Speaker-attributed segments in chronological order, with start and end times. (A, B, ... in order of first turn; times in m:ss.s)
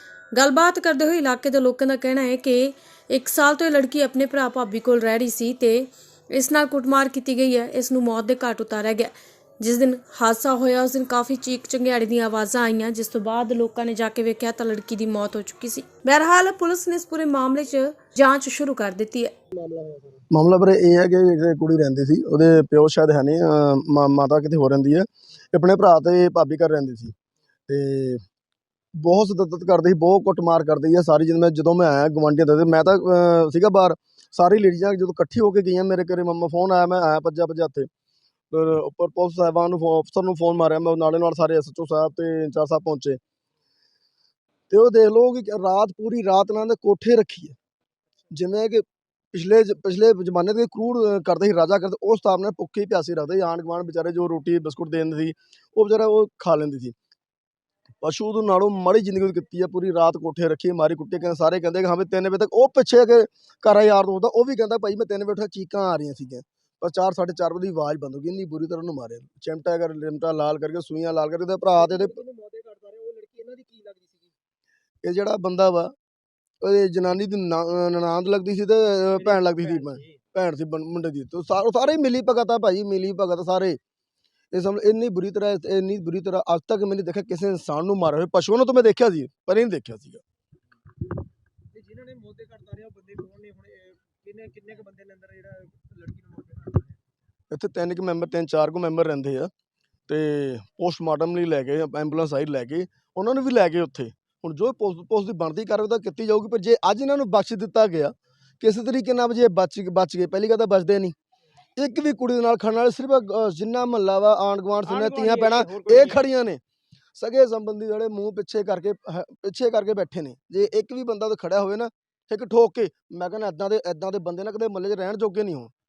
0:00.3-0:19.3 A
0:19.5-0:20.2 B
0:20.3-0:27.1 C
0:27.7-0:28.2 C
0:29.0-0:37.9 C
0:38.5-0:43.2 C
0:44.7-0:47.5 C
0:48.3-0:56.9 C
0:58.0-1:12.2 C
1:11.7-1:14.3 B
1:15.0-1:15.9 C
1:16.6-1:23.8 C
1:24.5-1:30.2 C
1:31.7-1:37.0 B
1:37.5-1:39.5 C
1:40.1-1:51.1 C
1:51.8-1:56.6 C
1:54.8-1:56.2 B
1:57.2-2:05.7 C